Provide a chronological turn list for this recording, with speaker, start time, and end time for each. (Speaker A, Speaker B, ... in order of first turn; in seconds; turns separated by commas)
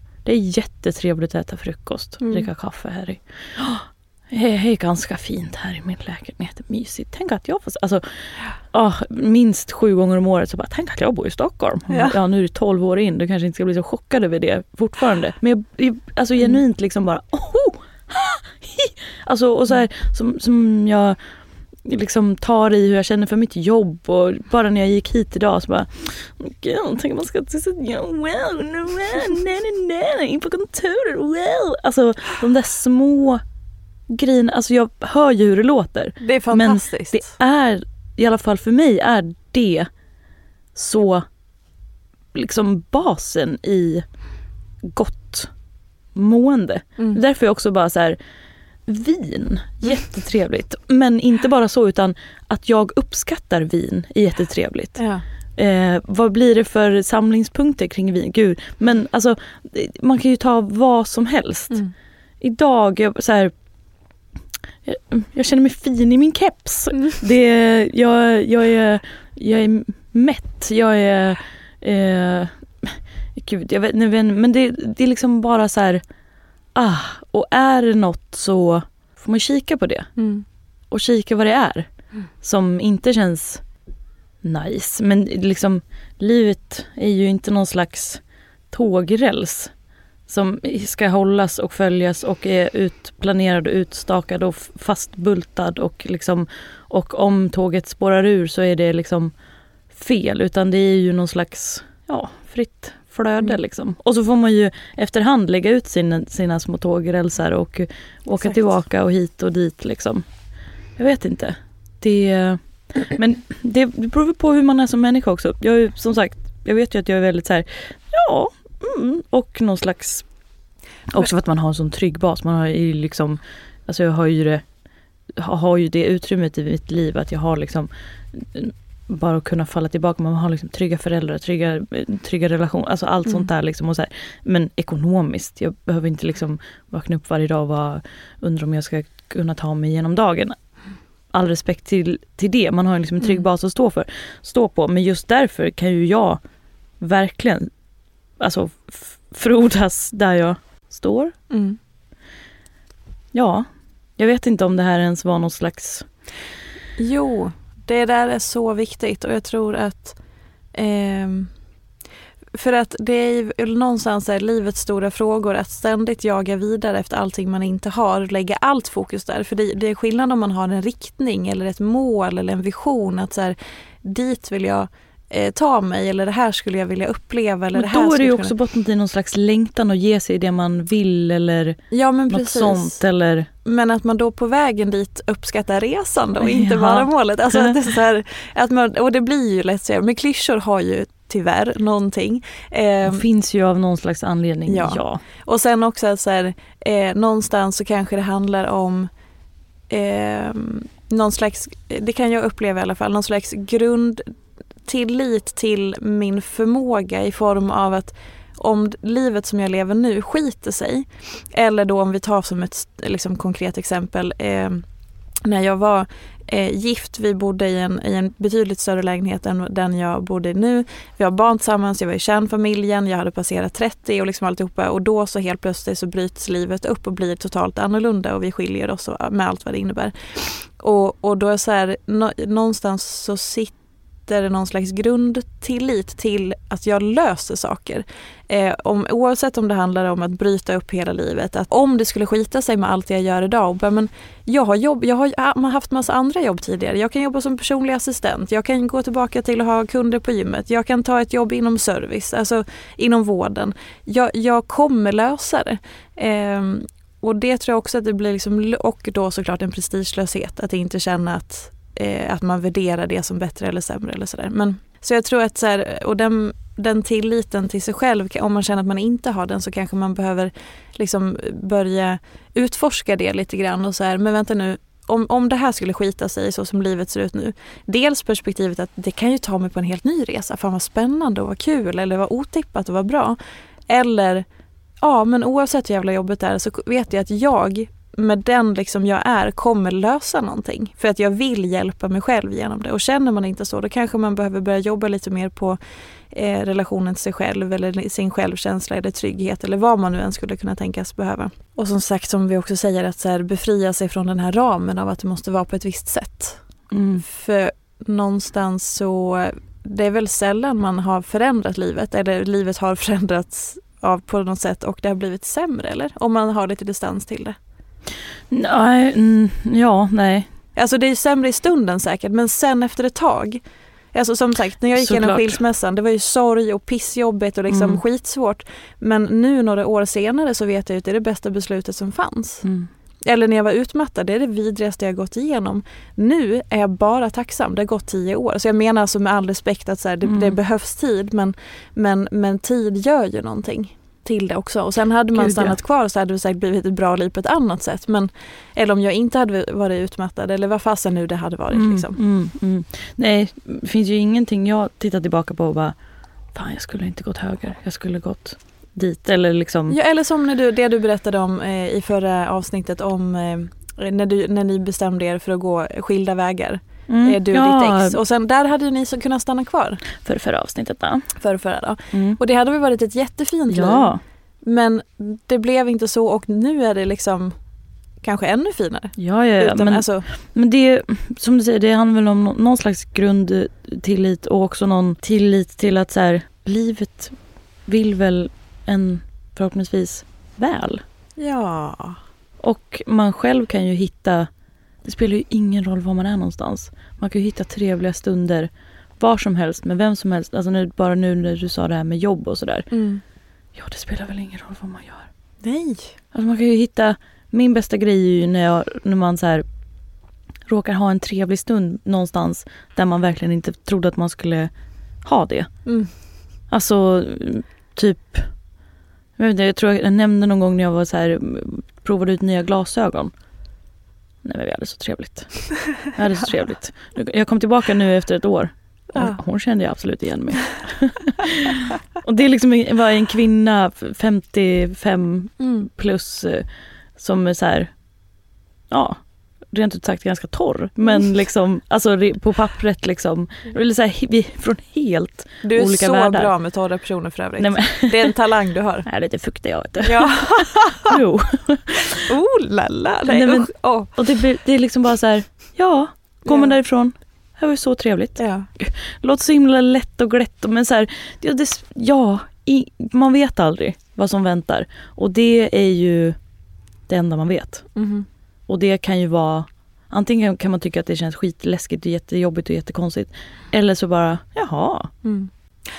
Speaker A: 0.2-21.2, Speaker B: 2.2-2.5, Speaker B: 11.9-12.1, Speaker A: 21.8-33.4, Speaker A: 34.1-39.9, Speaker B: 36.2-37.2, Speaker A: 40.7-41.2, Speaker A: 42.3-44.0, Speaker A: 44.8-45.5, Speaker A: 46.1-48.2, Speaker A: 48.9-55.0, Speaker B: 55.0-55.2, Speaker A: 55.6-61.8, Speaker A: 62.4-63.5, Speaker A: 64.8-76.0, Speaker A: 76.7-80.1, Speaker B: 80.2-80.4, Speaker A: 80.9-81.9, Speaker A: 82.4-83.6, Speaker A: 84.4-89.7, Speaker A: 90.3-99.3, Speaker A: 99.9-110.2, Speaker A: 111.0-120.2, Speaker A: 121.1-124.6, Speaker A: 125.4-140.6, Speaker A: 141.3-146.4, Speaker A: 147.0-147.7, Speaker A: 148.4-151.3, Speaker B: 151.5-151.8, Speaker A: 153.3-153.7, Speaker A: 154.2-156.1, Speaker B: 157.0-160.2, Speaker B: 160.7-161.5, Speaker B: 162.5-178.5, Speaker A: 177.7-183.5, Speaker B: 181.9-183.0, Speaker B: 183.6-193.2, Speaker A: 186.4-187.8, Speaker A: 193.0-195.2, Speaker B: 194.7-199.1, Speaker B: 199.9-204.3, Speaker B: 204.8-214.8, Speaker B: 215.4-230.1, Speaker B: 230.8-233.7, Speaker B: 234.3-283.4, Speaker B: 283.9-284.4, Speaker B: 285.0-295.8, Speaker B: 296.3-306.6, Speaker A: 306.9-307.2, Speaker B: 307.2-317.6, Speaker A: 318.5-320.5, Speaker B: 320.8-323.6, Speaker B: 324.1-332.6, Speaker A: 325.0-325.6, Speaker A: 327.7-328.0, Speaker A: 332.6-332.9, Speaker B: 333.2-352.2, Speaker A: 340.2-340.6, Speaker A: 345.3-345.8, Speaker A: 351.7-355.9, Speaker A: 356.5-360.0, Speaker B: 359.9-370.0, Speaker A: 367.1-368.2, Speaker A: 370.2-371.3, Speaker B: 371.4-374.1, Speaker A: 372.1-372.4, Speaker A: 373.7-374.2, Speaker B: 374.6-377.5, Speaker B: 378.2-380.2, Speaker A: 379.2-387.3, Speaker A: 387.9-391.0, Speaker B: 391.4-392.2, Speaker A: 392.6-394.5, Speaker A: 395.0-402.9, Speaker B: 402.9-403.2, Speaker A: 403.8-405.3, Speaker B: 405.6-406.1, Speaker A: 406.3-409.6, Speaker A: 410.7-414.7, Speaker A: 415.2-415.7, Speaker B: 415.9-416.1, Speaker A: 416.7-418.5, Speaker A: 419.4-423.3, Speaker A: 424.4-436.6, Speaker B: 435.6-435.9, Speaker A: 437.2-437.9, Speaker A: 438.9-439.2, Speaker A: 439.7-446.5, Speaker B: 445.6-449.1, Speaker A: 447.6-448.4, Speaker A: 449.1-452.1, Speaker B: 450.0-451.1, Speaker B: 452.1-454.1, Speaker A: 453.3-466.4, Speaker B: 456.4-456.8, Speaker B: 458.4-458.7, Speaker A: 467.1-467.9, Speaker B: 467.9-468.3, Speaker A: 468.7-475.1, Speaker B: 475.2-475.5